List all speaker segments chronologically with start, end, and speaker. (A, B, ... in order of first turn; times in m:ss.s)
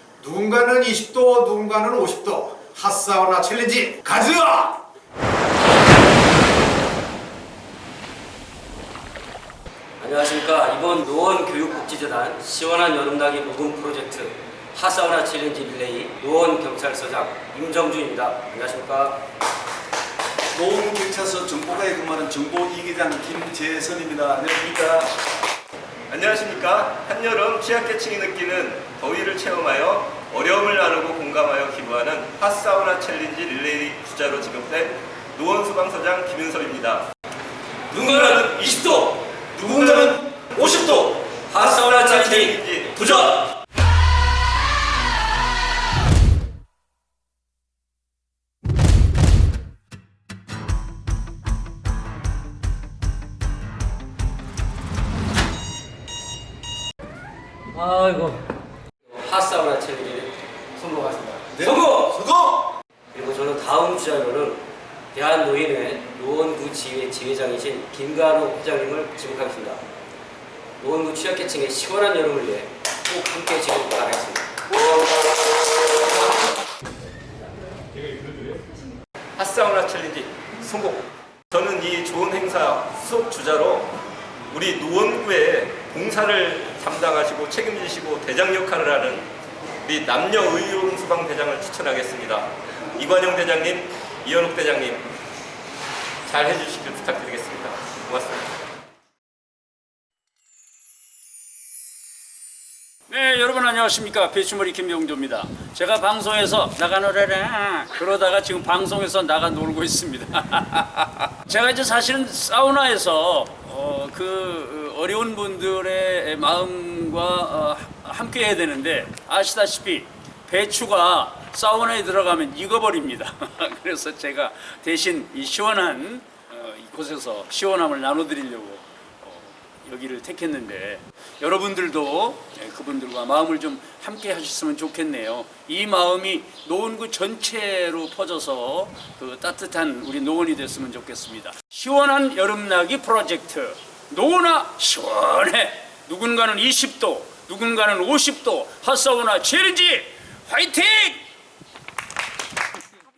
0:00.2-0:04.8 A
0:10.0-0:19.2 B
0:20.6-0:25.1 C
0:26.1-0:37.1 D
0:37.9-0:43.5 D
0:38.1-0:38.4 B
0:39.7-0:40.1 B
0:41.5-0:42.6 B
0:57.7-0:58.5 B
0:59.1-1:02.3 B
1:01.6-1:02.6 C
1:03.1-1:09.8 B
1:10.8-1:15.2 B
1:19.4-1:24.0 D
1:24.5-1:29.3 D
1:29.8-1:35.1 D
1:36.3-1:38.5 D
1:43.1-2:31.2 E